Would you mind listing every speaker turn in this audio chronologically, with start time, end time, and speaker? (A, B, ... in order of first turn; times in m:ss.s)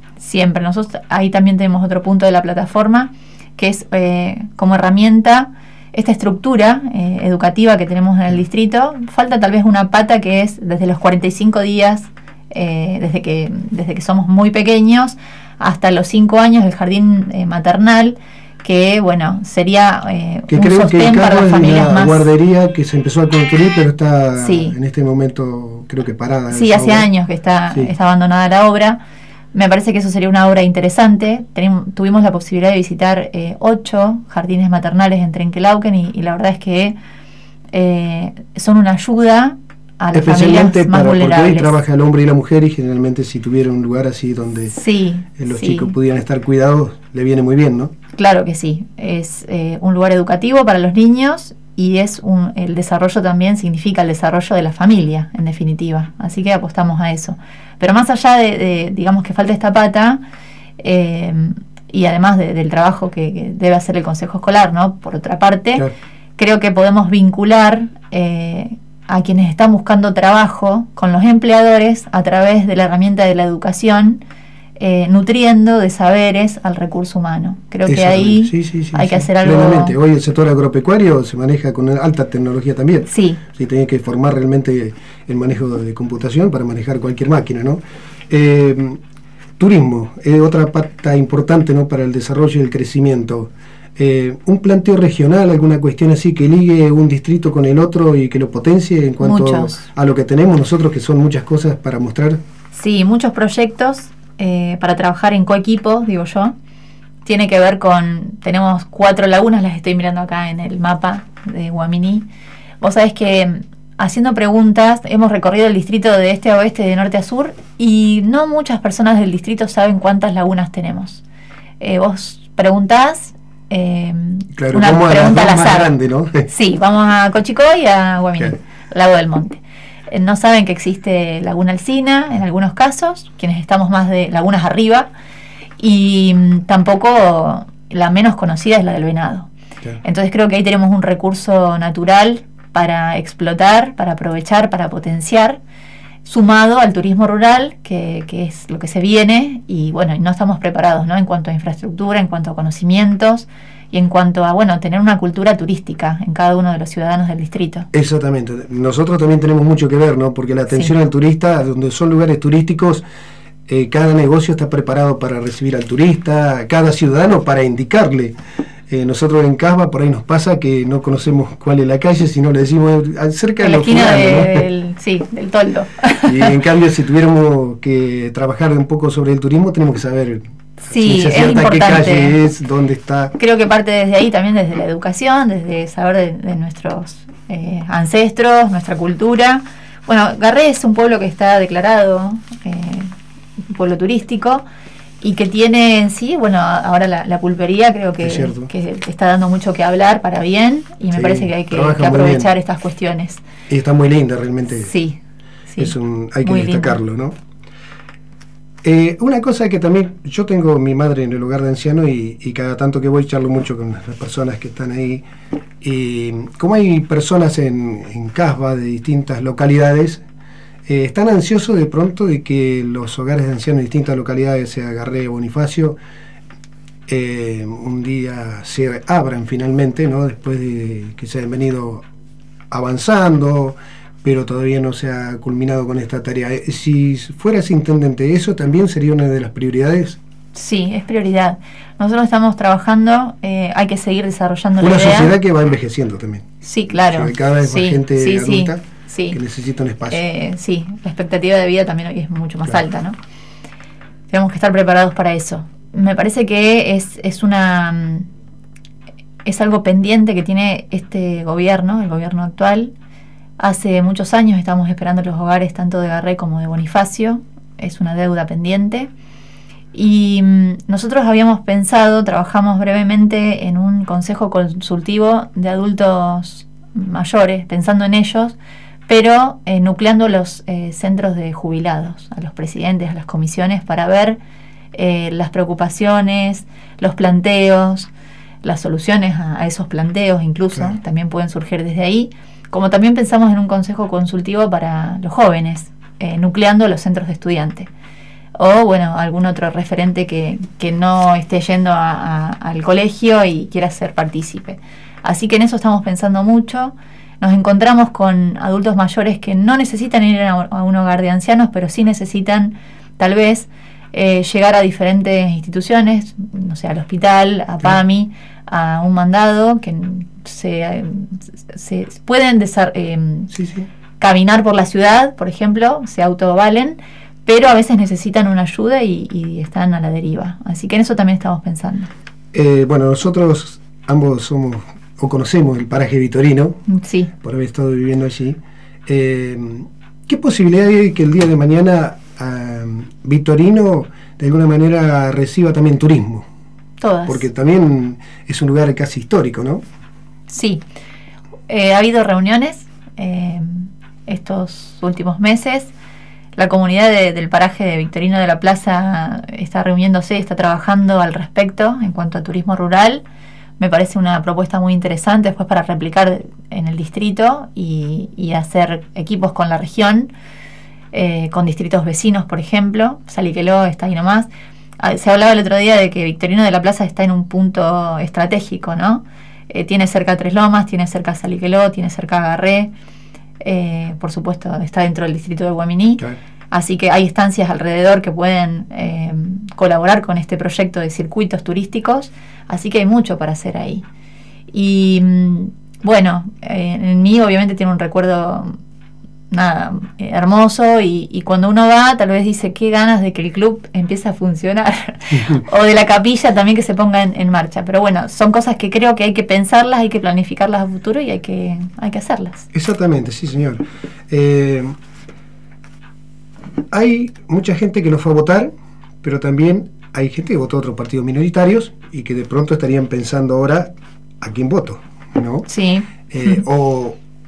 0:00.2-0:22.3 A
0:20.5-0:27.1 B
0:24.4-0:24.8 A
0:26.5-0:29.0 A
0:29.5-0:37.0 A
0:37.7-0:41.8 A
0:40.1-0:44.7 B
0:44.7-0:45.9 A
0:45.4-0:47.9 B
0:48.1-1:00.2 A
1:00.8-1:05.9 A
1:06.4-1:14.2 A
1:14.8-1:20.0 A
1:17.9-1:29.0 B
1:23.1-1:23.4 A
1:29.6-1:42.4 B
1:39.2-1:39.8 A
1:42.7-1:46.6 A
1:47.2-1:52.2 A
1:52.8-2:01.2 A
2:01.8-2:05.9 A
2:04.6-2:06.5 B
2:06.5-2:15.1 A
2:15.8-2:19.5 A
2:20.0-2:25.6 A
2:26.2-2:37.9 A
2:37.9-2:43.0 B
2:43.7-2:48.4 B
2:48.9-2:54.7 B
2:53.6-2:56.6 A
2:56.3-3:03.3 B
3:00.8-3:02.4 A
3:03.4-3:13.1 A
3:13.7-3:14.6 A
3:15.2-3:23.4 A
3:18.2-3:18.7 B
3:21.1-3:22.5 B
3:23.7-3:24.9 B
3:24.8-3:27.0 A
3:25.8-3:27.4 B
3:28.8-3:35.2 B
3:35.8-3:40.2 B
3:40.9-3:46.0 B
3:47.1-3:52.1 B
3:52.7-4:00.2 B
4:00.5-4:05.4 A
4:04.8-4:08.8 B
4:06.6-4:09.4 A
4:09.3-4:10.2 B
4:10.1-4:13.2 A
4:14.3-4:18.3 A
4:19.4-4:22.9 A
4:23.6-4:29.1 A
4:29.9-4:38.6 A
4:39.1-4:44.4 A
4:44.9-4:48.1 A
4:48.6-4:57.9 A
4:58.6-5:23.5 A
5:23.5-5:23.9 B
5:24.2-5:32.1 A
5:32.5-5:36.8 B
5:36.9-5:37.3 A
5:37.4-5:46.5 B
5:47.0-5:47.5 A
5:47.3-5:49.8 B
5:50.5-5:50.8 A
5:51.7-5:55.9 A
5:56.6-6:03.2 A
6:03.8-6:10.3 A
6:11.1-6:22.9 A
6:23.6-6:34.0 A
6:34.7-6:38.8 A
6:39.5-6:52.7 A
6:45.3-6:45.6 B
6:52.7-6:54.9 B
6:56.9-6:58.7 B
6:59.2-7:05.7 B
7:05.7-7:06.6 A
7:06.3-7:07.2 B